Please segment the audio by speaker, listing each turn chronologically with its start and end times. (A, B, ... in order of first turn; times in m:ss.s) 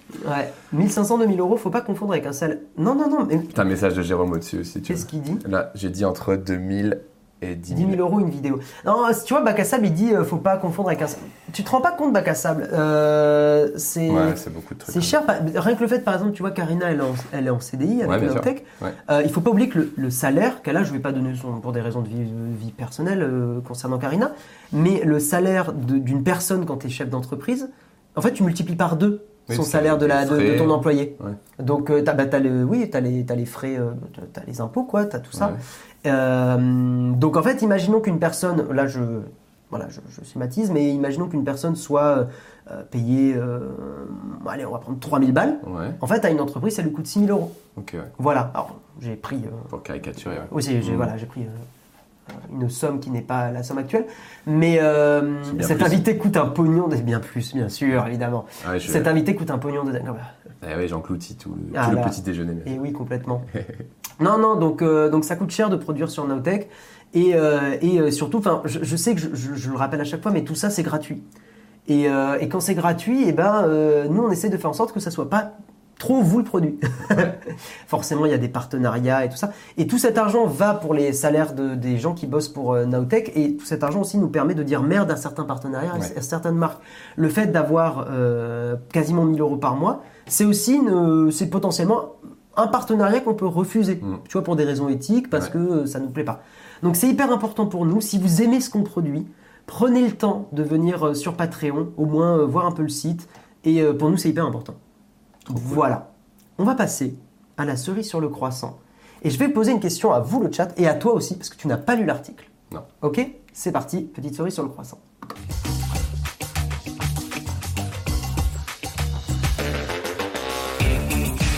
0:00.2-0:03.6 A
0:03.5-0:08.0 B
0:04.9-0:05.4 A
0:07.7-0:47.6 A
0:14.1-0:15.2 B
0:18.0-0:19.0 B
0:29.5-0:31.4 B
0:35.3-0:35.6 B
0:45.6-0:46.0 B
0:47.8-0:48.1 B
0:48.2-0:49.7 A
0:49.7-0:51.1 B
0:50.5-0:51.7 A
0:52.3-1:00.3 A
0:55.5-0:56.0 B
0:58.6-0:59.1 B
1:00.6-1:02.8 B
1:01.7-1:03.5 A
1:03.5-1:03.8 B
1:04.2-1:11.2 A
1:11.9-1:44.8 A
1:45.5-1:45.8 B
1:45.5-1:52.5 A
1:53.0-1:55.0 A